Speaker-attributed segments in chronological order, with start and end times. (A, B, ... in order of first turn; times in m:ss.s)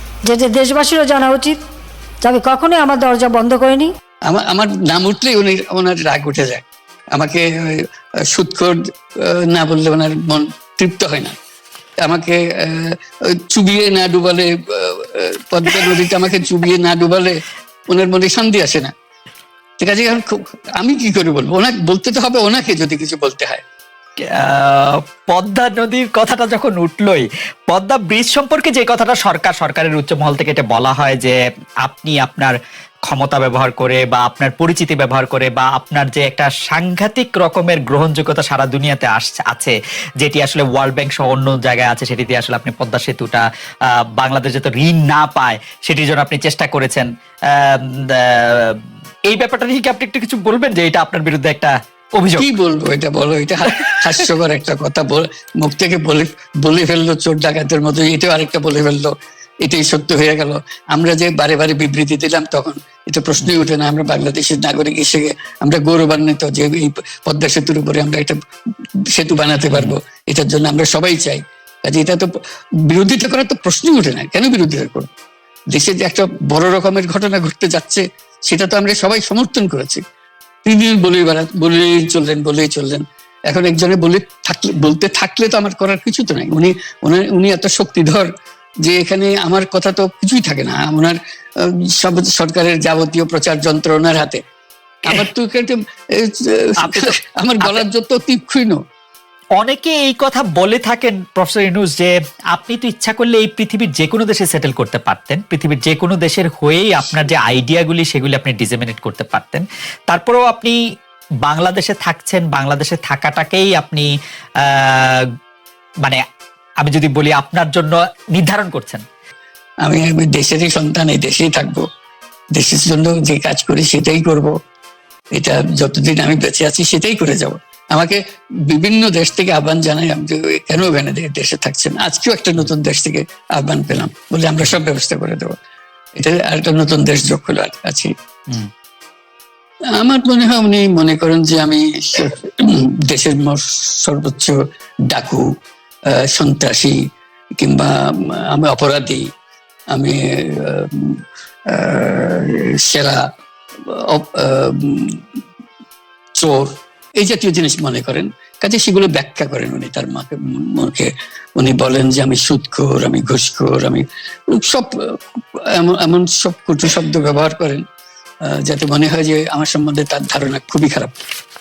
0:00.3-0:01.6 A
0:02.2-0:03.9 A
0:04.3-0:07.7 B
0:08.3-0:11.3 B
0:12.0-0:17.3 B
0:17.9-0:18.9 B
0:19.8-0:23.6 B
0:24.2-0:32.6 C
0:33.1-0:43.4 C
0:44.2-0:48.8 C
0:49.3-0:52.5 C
0:52.4-0:59.1 B
0:53.6-0:54.2 C
0:59.6-1:08.4 B
1:03.4-1:03.7 C
1:09.1-1:12.3 B
1:12.8-1:15.1 B
1:15.7-1:20.0 B
1:20.6-1:28.3 B
1:28.8-1:31.2 B
1:32.0-1:34.4 B
1:35.0-1:38.8 B
1:36.8-1:37.8 C
1:39.6-1:50.8 C
1:51.4-1:54.1 C
1:54.6-1:55.2 C
1:56.8-1:59.0 C
1:59.8-2:01.8 B
2:02.6-2:04.5 B
2:05.3-2:15.6 B
2:16.2-2:18.1 B
2:19.9-2:24.6 B
2:25.1-2:25.4 B
2:26.1-2:27.0 B
2:27.6-2:29.3 B
2:29.9-2:33.2 B
2:33.9-2:35.2 B
2:36.4-2:47.8 B
2:48.4-2:51.1 B